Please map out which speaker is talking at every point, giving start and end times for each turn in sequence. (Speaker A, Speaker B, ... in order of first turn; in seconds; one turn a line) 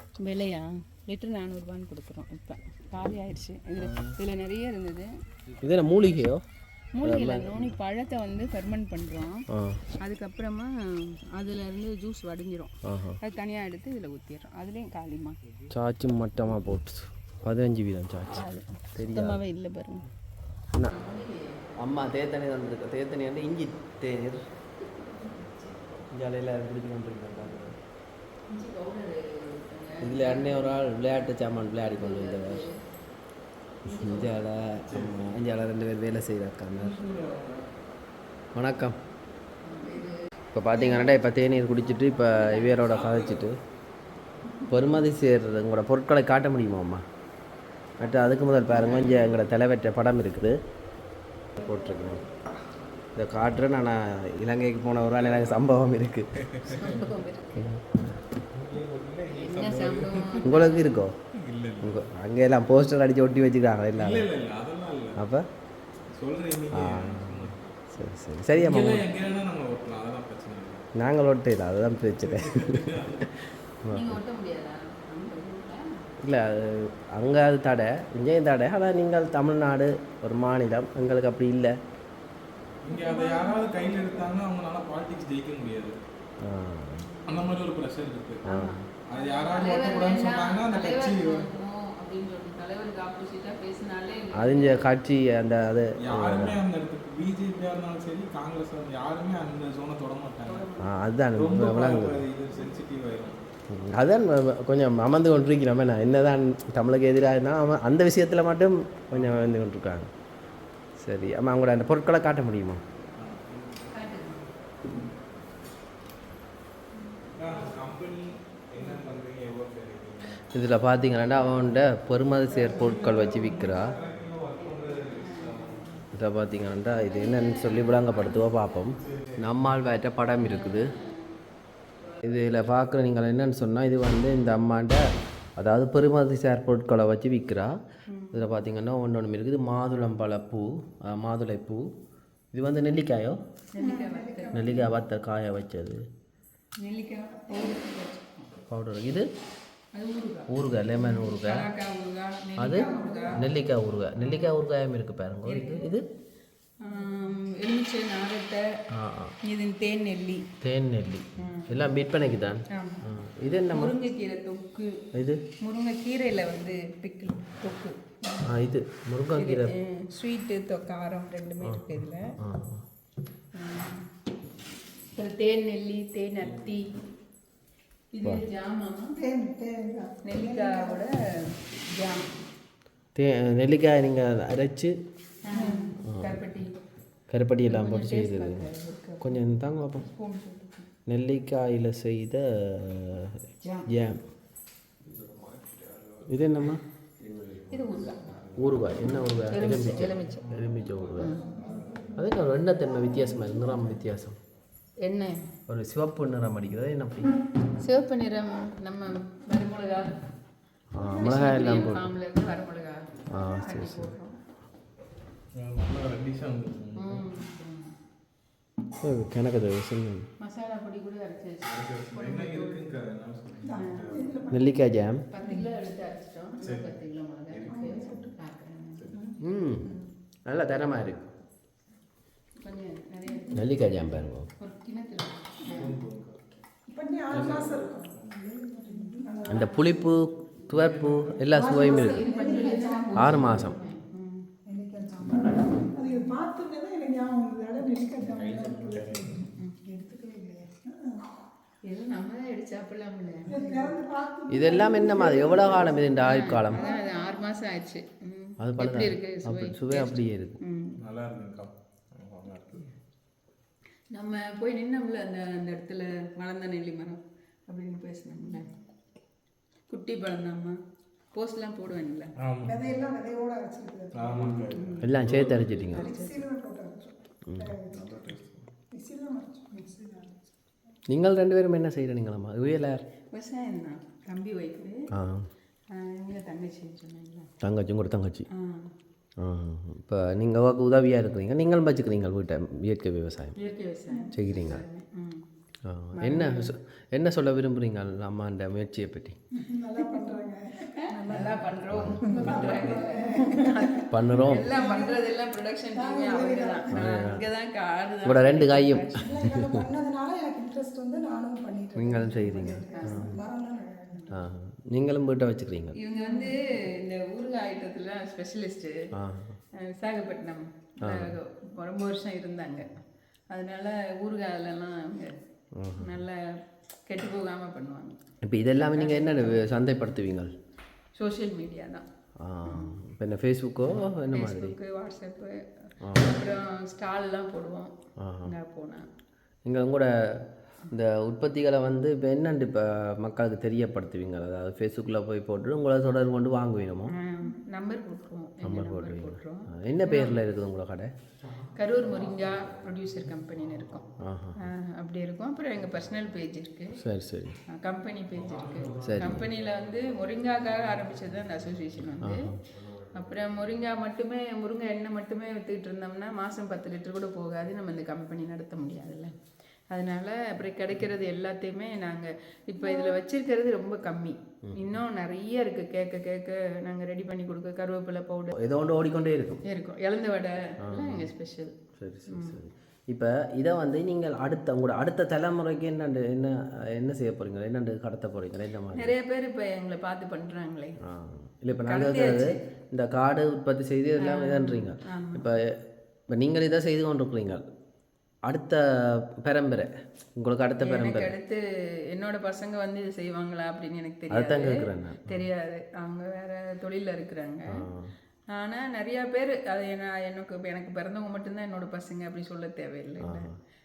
Speaker A: 0.2-5.1
Speaker B: 3.8-4.1
Speaker B: 5.6-6.4
Speaker A: 6.9-9.4
Speaker B: 7.0-7.7
Speaker B: 9.5-9.8
Speaker A: 10.0-15.4
Speaker B: 12.8-13.2
Speaker B: 15.7-19.4
Speaker A: 18.3-20.1
Speaker A: 20.8-21.7
Speaker B: 21.8-24.4
Speaker A: 24.8-26.1
Speaker B: 26.1-27.7
Speaker A: 28.5-32.8
Speaker B: 30.0-32.6
Speaker A: 33.8-34.3
Speaker B: 33.9-37.0
Speaker C: 34.9-35.2
Speaker C: 36.7-37.8
Speaker B: 38.5-39.0
Speaker A: 39.6-40.2
Speaker B: 40.5-43.6
Speaker A: 40.7-41.2
Speaker A: 41.9-42.9
Speaker C: 42.9-43.4
Speaker B: 44.7-47.0
Speaker B: 48.0-50.6
Speaker C: 48.8-49.2
Speaker B: 51.6-52.2
Speaker B: 53.1-56.3
Speaker C: 55.2-55.6
Speaker C: 56.5-56.8
Speaker A: 56.6-57.7
Speaker B: 57.5-58.1
Speaker C: 58.5-60.4
Speaker A: 59.3-60.9
Speaker B: 60.4-61.1
Speaker C: 61.3-62.0
Speaker B: 61.8-64.3
Speaker C: 63.9-65.2
Speaker B: 65.2-65.5
Speaker C: 66.1-67.8
Speaker B: 66.7-69.1
Speaker C: 68.6-70.8
Speaker B: 71.0-73.3
Speaker C: 72.2-73.3
Speaker B: 73.8-74.2
Speaker A: 73.9-76.1
Speaker B: 76.2-81.7
Speaker C: 82.8-86.0
Speaker D: 82.9-84.3
Speaker B: 86.4-87.1
Speaker A: 87.1-87.5
Speaker C: 87.2-88.5
Speaker B: 88.4-88.8
Speaker A: 88.5-94.8
Speaker C: 89.0-91.5
Speaker B: 94.3-96.6
Speaker C: 96.0-100.7
Speaker A: 100.4-100.9
Speaker B: 100.8-102.2
Speaker C: 101.3-103.4
Speaker B: 103.7-110.1
Speaker B: 111.0-112.8
Speaker C: 113.2-113.9
Speaker A: 113.9-114.5
Speaker C: 117.3-120.4
Speaker A: 118.8-119.0
Speaker B: 120.5-123.9
Speaker C: 122.6-125.8
Speaker A: 122.8-123.7
Speaker A: 124.9-126.0
Speaker B: 126.1-130.9
Speaker A: 126.9-128.8
Speaker C: 129.0-129.5
Speaker A: 130.4-131.3
Speaker B: 132.2-135.0
Speaker B: 135.6-137.7
Speaker A: 138.1-138.5
Speaker B: 138.3-141.8
Speaker B: 142.5-143.4
Speaker A: 143.7-144.8
Speaker D: 143.8-144.9
Speaker B: 144.5-146.0
Speaker A: 146.8-148.6
Speaker B: 148.7-149.3
Speaker A: 149.9-153.4
Speaker B: 150.5-151.7
Speaker B: 152.6-156.0
Speaker D: 152.7-153.3
Speaker A: 154.2-154.6
Speaker A: 155.4-155.9
Speaker A: 156.8-158.6
Speaker B: 158.9-159.3
Speaker A: 159.4-160.5
Speaker B: 160.6-163.9
Speaker A: 161.4-161.9
Speaker A: 162.7-163.1
Speaker A: 163.7-165.1
Speaker B: 165.1-165.4
Speaker A: 165.6-168.5
Speaker B: 168.5-169.8
Speaker A: 169.3-172.3
Speaker B: 171.6-172.8
Speaker A: 173.5-174.1
Speaker A: 175.1-176.9
Speaker A: 178.1-179.2
Speaker D: 179.1-181.1
Speaker A: 180.2-182.3
Speaker B: 183.1-184.9
Speaker A: 185.4-186.8
Speaker D: 185.5-185.9
Speaker B: 186.0-186.3
Speaker B: 187.3-188.7
Speaker A: 187.7-189.4
Speaker B: 189.2-190.0
Speaker A: 190.0-190.9
Speaker B: 191.1-194.2
Speaker A: 193.6-193.9
Speaker C: 195.1-196.3
Speaker B: 196.3-196.8
Speaker A: 197.7-198.3
Speaker C: 198.1-198.8
Speaker B: 198.6-201.3
Speaker A: 199.5-200.5
Speaker C: 199.8-200.7
Speaker A: 201.2-201.5
Speaker C: 201.3-202.1
Speaker B: 202.2-204.4
Speaker A: 205.0-205.3
Speaker B: 205.7-207.3
Speaker A: 207.8-210.1
Speaker B: 210.9-212.1
Speaker A: 211.0-214.3
Speaker B: 213.3-214.1
Speaker C: 215.5-217.3
Speaker A: 217.0-217.9
Speaker B: 219.0-220.3
Speaker A: 220.4-222.8
Speaker C: 221.6-224.4
Speaker D: 223.6-224.8
Speaker A: 223.8-224.3
Speaker B: 224.5-225.2
Speaker A: 225.3-229.2
Speaker D: 225.4-225.7
Speaker C: 226.6-226.9
Speaker C: 227.5-228.0
Speaker D: 227.7-228.3
Speaker D: 229.1-230.0
Speaker B: 229.4-229.9
Speaker B: 230.4-231.3
Speaker A: 232.6-233.8
Speaker B: 233.5-234.5
Speaker A: 234.6-236.0
Speaker C: 235.6-236.4
Speaker D: 236.9-240.1
Speaker C: 237.3-238.3
Speaker A: 238.9-239.7
Speaker B: 239.5-242.3
Speaker C: 240.7-241.4
Speaker D: 241.5-243.7
Speaker A: 241.8-244.5
Speaker B: 243.1-243.8
Speaker D: 244.7-251.3
Speaker A: 245.8-246.3
Speaker C: 248.2-249.5
Speaker A: 251.9-254.0
Speaker D: 253.4-257.3
Speaker B: 254.5-256.9
Speaker A: 256.2-261.0
Speaker B: 258.6-260.6
Speaker C: 261.0-262.9
Speaker A: 264.1-268.7
Speaker A: 269.9-270.8
Speaker A: 271.3-272.3
Speaker C: 272.4-272.8
Speaker D: 272.6-274.6
Speaker C: 274.1-275.7
Speaker A: 274.4-275.2
Speaker B: 275.0-276.1
Speaker D: 275.8-278.3
Speaker A: 275.9-276.4
Speaker B: 277.5-277.7
Speaker C: 277.8-278.7
Speaker D: 278.9-280.5
Speaker B: 281.1-283.0
Speaker A: 283.3-285.0
Speaker B: 285.1-285.5
Speaker A: 285.9-287.5
Speaker B: 287.6-288.4
Speaker A: 288.5-288.9
Speaker B: 289.4-293.6
Speaker A: 293.6-295.5
Speaker B: 294.3-294.8
Speaker B: 295.8-299.4
Speaker A: 296.1-296.7
Speaker D: 299.6-305.2
Speaker A: 300.8-309.2
Speaker B: 301.9-302.9
Speaker B: 304.1-304.7
Speaker D: 305.9-307.2
Speaker B: 306.9-307.4
Speaker B: 308.2-309.7
Speaker D: 309.2-314.3
Speaker B: 311.9-313.3
Speaker A: 312.9-313.4
Speaker B: 314.3-315.9
Speaker A: 315.9-318.9
Speaker D: 316.2-316.5
Speaker B: 319.1-319.5
Speaker A: 319.8-322.9
Speaker B: 321.0-321.4
Speaker A: 323.5-325.4
Speaker B: 325.7-326.1
Speaker A: 326.0-326.4
Speaker A: 327.1-328.2
Speaker B: 328.4-330.5
Speaker A: 328.9-329.6
Speaker A: 331.1-332.0
Speaker B: 332.4-334.8
Speaker A: 332.6-333.0
Speaker A: 334.3-337.9
Speaker B: 336.0-336.4
Speaker B: 338.2-338.5
Speaker A: 338.4-339.1
Speaker B: 339.6-347.1
Speaker A: 347.1-350.4
Speaker B: 348.6-351.1
Speaker A: 351.7-354.0
Speaker B: 354.2-354.6
Speaker A: 354.6-357.0
Speaker B: 357.0-357.6
Speaker A: 357.7-362.4
Speaker C: 358.3-359.7
Speaker B: 359.0-359.4
Speaker C: 360.4-361.2
Speaker B: 362.2-362.5
Speaker A: 363.1-369.3
Speaker A: 369.9-378.5
Speaker B: 374.7-374.9
Speaker B: 378.5-379.6
Speaker A: 379.7-381.7
Speaker B: 380.8-381.3
Speaker B: 382.0-389.1
Speaker A: 382.3-382.6
Speaker A: 388.9-391.0
Speaker B: 391.0-395.8
Speaker A: 391.7-392.6
Speaker A: 394.2-395.5
Speaker B: 396.3-397.6
Speaker B: 398.4-401.3
Speaker A: 400.8-407.7
Speaker B: 404.3-405.5
Speaker B: 407.7-408.1
Speaker A: 408.5-413.5
Speaker B: 413.2-413.5